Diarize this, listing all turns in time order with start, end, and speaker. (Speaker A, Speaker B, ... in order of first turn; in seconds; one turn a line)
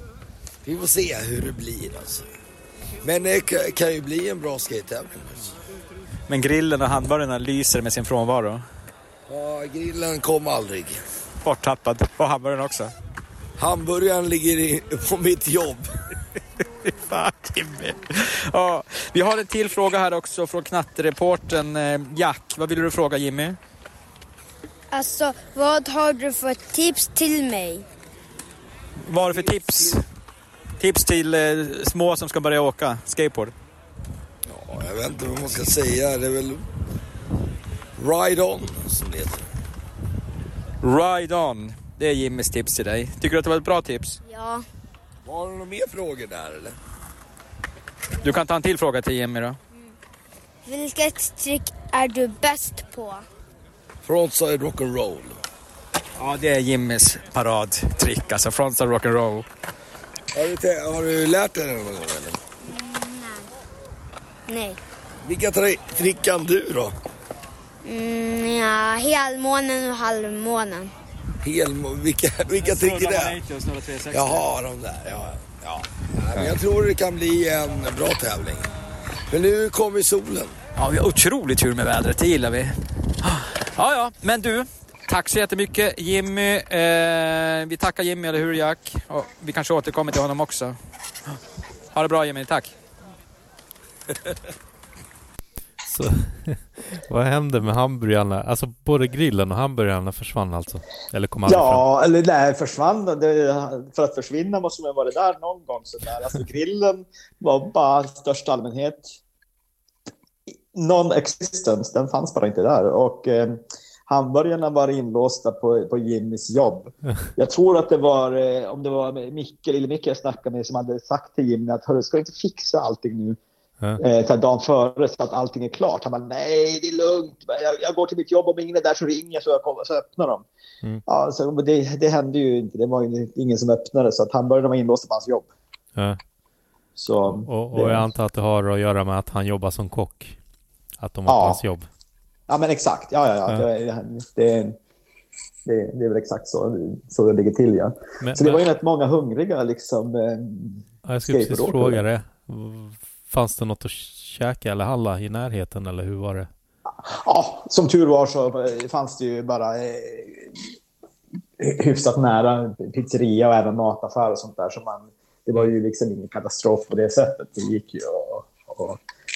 Speaker A: 0.7-2.2
Speaker A: 3.0-5.5
Speaker B: 6.3-8.6
Speaker A: 9.3-11.0
Speaker B: 11.4-12.9
Speaker A: 13.6-15.8
Speaker B: 17.0-23.6
Speaker C: 24.9-27.9
Speaker B: 29.0-30.0
Speaker B: 30.8-33.5
Speaker A: 34.5-36.6
Speaker A: 38.0-39.4
Speaker B: 40.8-44.2
Speaker C: 44.2-44.6
Speaker A: 45.2-46.7
Speaker B: 48.2-49.6
Speaker C: 50.6-53.2
Speaker A: 54.0-55.4
Speaker B: 56.2-59.5
Speaker A: 60.3-62.4
Speaker C: 62.6-63.5
Speaker C: 64.5-64.8
Speaker A: 65.2-66.9
Speaker C: 67.8-70.9
Speaker A: 71.4-73.3
Speaker B: 72.6-74.4
Speaker A: 74.1-78.7
Speaker A: 79.3-80.5
Speaker B: 80.8-90.8
Speaker B: 91.9-92.7
Speaker D: 95.8-101.8
Speaker E: 101.5-109.2
Speaker E: 110.7-123.4
Speaker E: 124.0-130.4
Speaker E: 131.1-135.5
Speaker E: 136.9-138.1
Speaker D: 137.3-140.4
Speaker D: 141.0-141.9
Speaker E: 141.3-141.6
Speaker E: 142.5-144.8
Speaker E: 145.7-152.0
Speaker D: 148.2-148.7
Speaker D: 151.0-156.5
Speaker E: 157.0-160.6
Speaker E: 161.6-169.0